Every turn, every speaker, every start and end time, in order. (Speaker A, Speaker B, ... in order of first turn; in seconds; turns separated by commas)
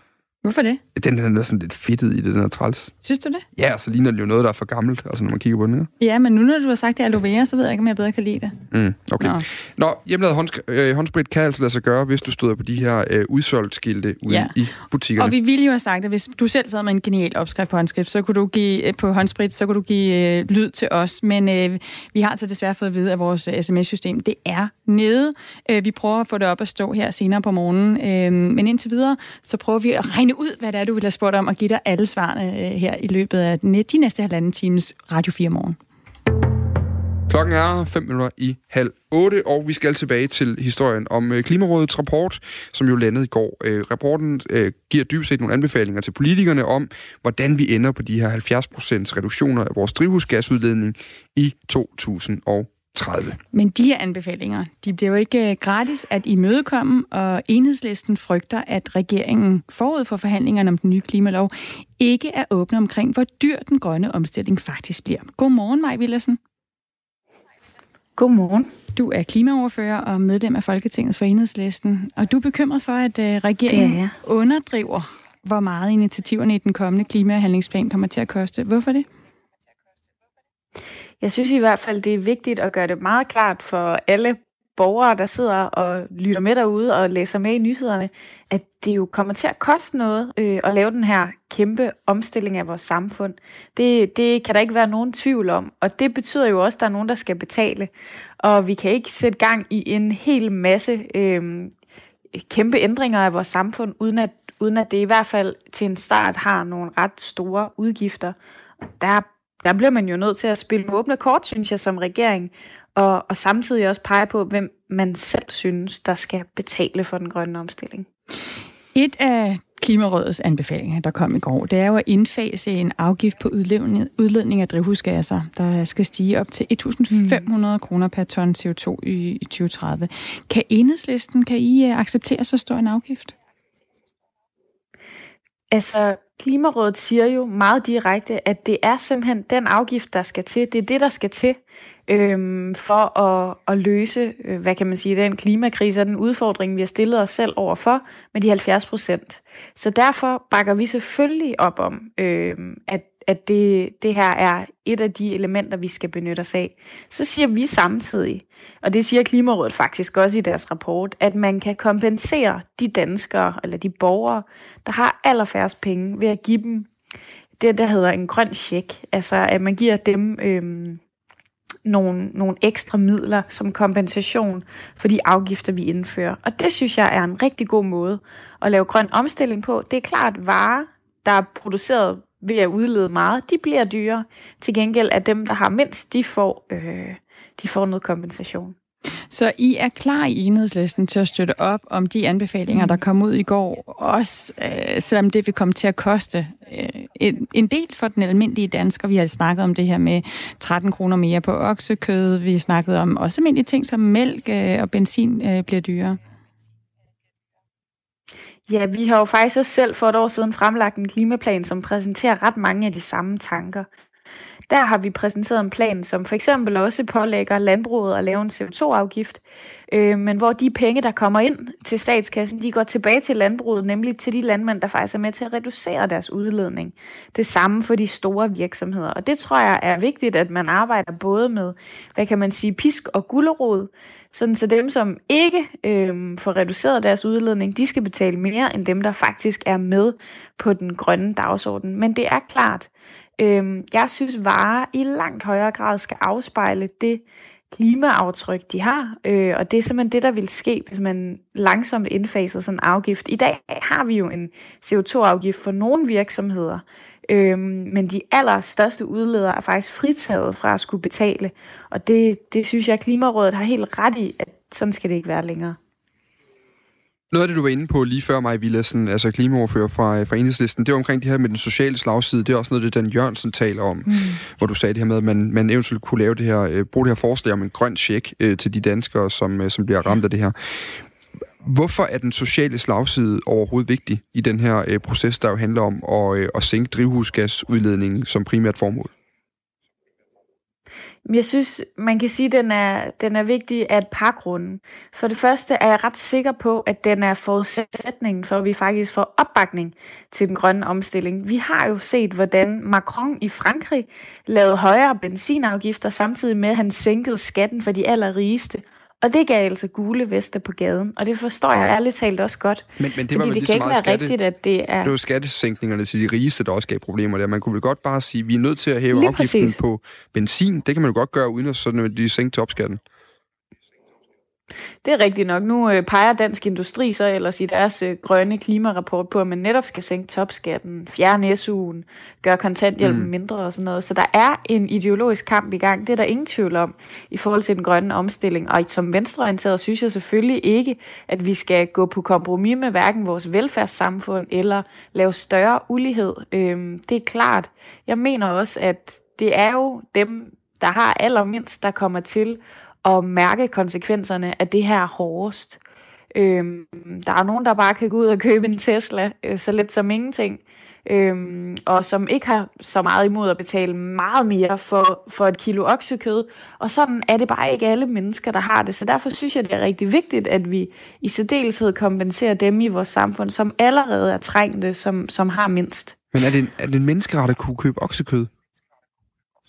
Speaker A: 0.4-0.8, Speaker B: 0.9-2.9, Speaker A: 3.0-3.4, Speaker B: 3.5-5.9, Speaker A: 6.0-8.6, Speaker B: 8.7-15.3, Speaker A: 14.3-14.5, Speaker A: 15.1-35.8, Speaker B: 37.3-53.4, Speaker A: 53.5-66.4, Speaker C: 68.2-68.7, Speaker A: 68.9-79.0, Speaker C: 73.7-74.1, Speaker C: 81.2-101.7, Speaker C: 102.4-118.1, Speaker A: 118.9-133.3, Speaker C: 127.1-127.5, Speaker C: 135.7-166.9, Speaker C: 167.6-171.0, Speaker C: 171.8-188.7, Speaker A: 189.3-206.2, Speaker C: 192.7-193.0, Speaker C: 208.7-213.9, Speaker C: 214.7-265.8, Speaker B: 267.3-281.0, Speaker B: 281.6-289.1, Speaker C: 291.2-315.1, Speaker B: 313.0-314.3, Speaker B: 315.0-323.0, Speaker C: 319.1-319.8, Speaker C: 325.0-355.8, Speaker B: 333.0-333.3, Speaker C: 356.3-376.2, Speaker B: 376.3-378.5